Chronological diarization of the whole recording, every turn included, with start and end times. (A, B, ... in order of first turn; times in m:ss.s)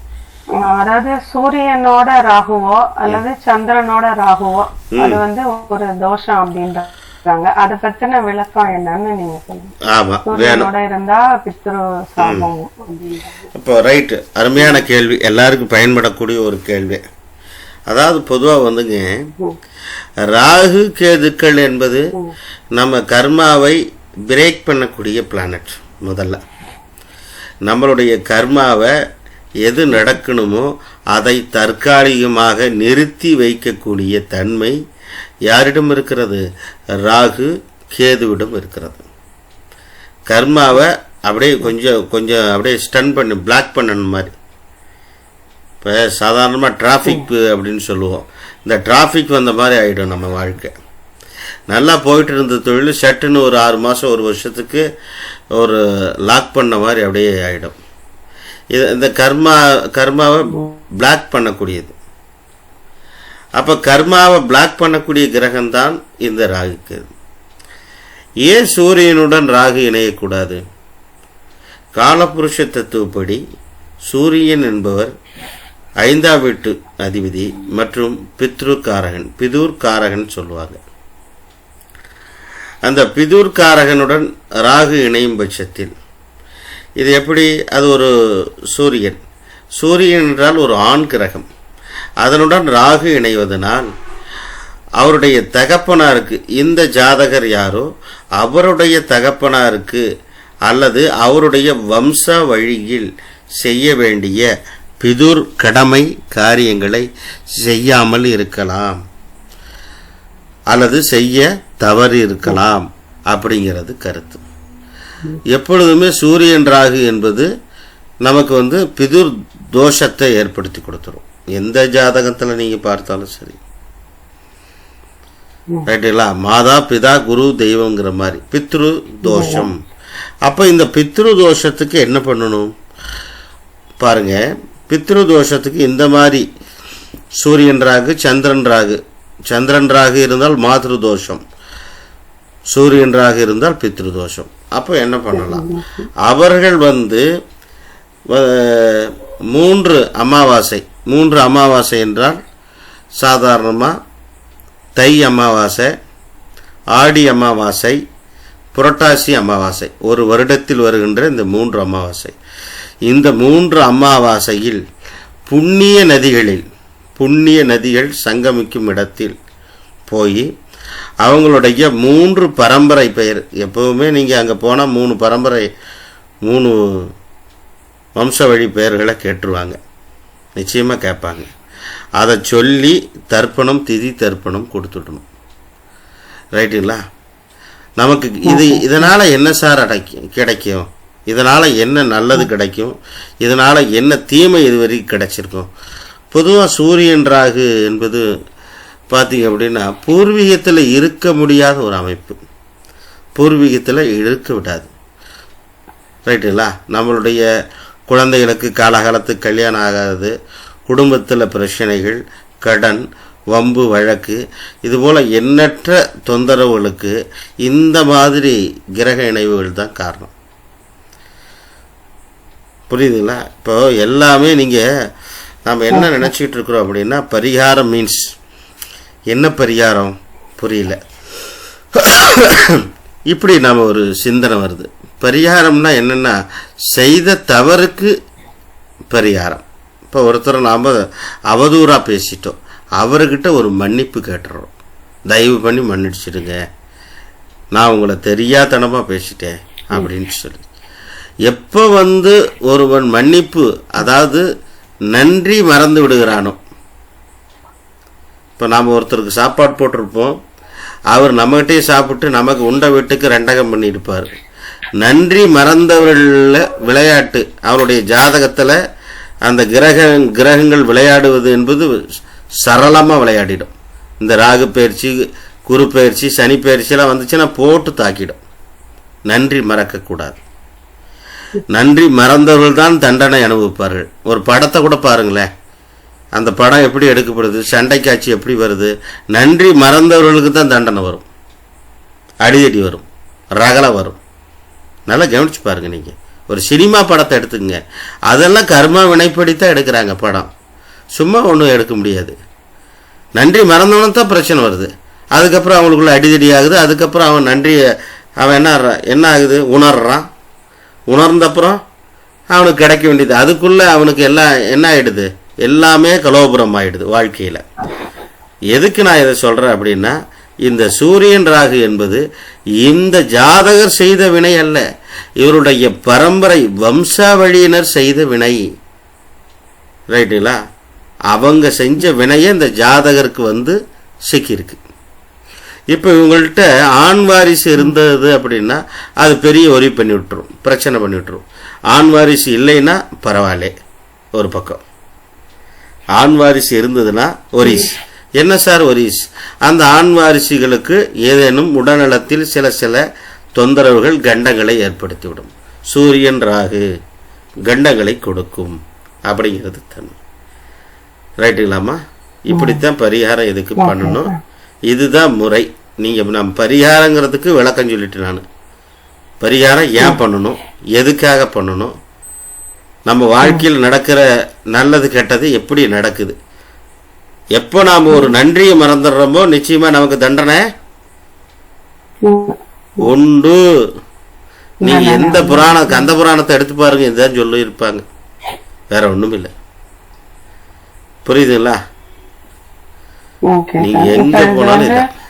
0:00.6-0:09.7 A
0:04.9-0:05.2 B
0:09.9-0:10.7 B
0:10.3-0:13.5 A
0:12.2-0:12.5 B
0:13.5-0:17.0 B
0:14.6-0:14.8 A
0:17.9-0:19.3 B
0:20.2-0:22.1 B
0:22.8-0:26.4 B
0:27.6-0:28.9 B
0:29.6-0:34.8 B
0:35.5-0:36.4 B
0:37.0-0:39.0 B
0:40.3-0:44.3 B
0:45.8-0:50.7 B
0:51.7-0:54.8 B
0:55.6-0:57.8 B
0:58.7-1:01.9 B
1:03.6-1:07.1 B
1:08.4-1:10.6 B
1:12.0-1:13.4 B
1:14.1-1:15.1 B
1:16.0-1:20.8 B
1:22.8-1:25.9 B
1:27.0-1:28.1 B
1:28.7-1:29.2 B
1:29.8-1:31.5 B
1:32.2-1:33.9 B
1:35.0-1:37.9 B
1:38.4-1:40.0 B
1:40.7-1:43.1 B
1:43.6-1:44.5 B
1:45.0-1:49.0 B
1:50.7-1:54.4 B
1:55.5-1:57.5 B
1:58.2-2:03.6 B
2:05.9-2:09.8 B
2:09.2-2:09.7 A
2:10.4-2:12.7 B
2:14.0-2:16.4 B
2:17.4-2:21.4 B
2:22.7-2:25.7 B
2:25.3-2:26.1 A
2:26.2-2:27.2 B
2:28.3-2:32.4 B
2:33.2-2:33.9 B
2:35.0-2:35.9 B
2:36.9-2:38.0 B
2:38.7-2:42.3 B
2:43.1-2:44.8 B
2:45.5-2:46.6 B
2:47.2-2:49.4 B
2:50.1-2:50.5 B
2:51.2-2:55.7 B
2:56.4-2:57.1 B
2:58.2-2:59.8 B
3:00.6-3:01.5 B
3:02.2-3:05.2 B
3:06.6-3:07.0 B
3:08.0-3:15.7 B
3:08.5-3:09.1 A
3:16.3-3:18.2 B
3:19.1-3:22.4 B
3:23.4-3:24.9 B
3:26.2-3:27.4 B
3:28.1-3:30.3 B
3:30.9-3:40.3 B
3:42.9-3:44.8 B
3:45.7-3:48.3 B
3:45.9-3:46.3 A
3:49.3-3:51.0 B
3:52.0-3:56.4 B
3:56.9-3:58.1 B
3:59.1-4:04.7 B
4:05.3-4:06.6 B
4:07.7-4:10.6 B
4:11.5-4:14.4 B
4:15.1-4:16.6 B
4:18.6-4:20.4 B
4:21.1-4:24.3 B
4:25.0-4:28.8 B
4:29.4-4:32.0 B
4:32.6-4:38.4 B
4:39.3-4:40.4 B
4:41.7-4:45.5 B
4:46.4-4:51.2 B
4:52.4-4:53.0 B
4:53.6-4:54.2 B
4:55.1-5:00.5 B
5:01.2-5:02.4 B
5:03.4-5:07.8 B
5:08.4-5:10.2 B
5:11.1-5:11.8 B
5:12.5-5:17.6 B
5:18.7-5:22.2 B
5:22.8-5:24.8 B
5:25.4-5:28.6 B
5:30.1-5:30.6 B
5:31.3-5:33.8 B
5:34.3-5:34.8 B
5:35.9-5:43.7 B
5:44.4-5:44.8 B
5:46.2-5:53.0 B
5:47.6-5:47.9 A
5:53.6-5:56.8 B
5:57.7-6:00.2 B
6:01.4-6:04.3 B
6:02.5-6:02.8 A
6:03.8-6:04.4 A
6:04.9-6:08.4 B
6:09.4-6:11.9 B
6:13.1-6:16.4 B
6:17.6-6:20.6 B
6:22.2-6:23.1 A
6:23.0-6:23.6 B
6:24.8-6:26.1 A
6:24.8-6:28.0 B
6:28.9-6:29.5 B
6:31.2-6:31.8 B
6:33.5-6:35.0 A
6:33.8-6:35.0 B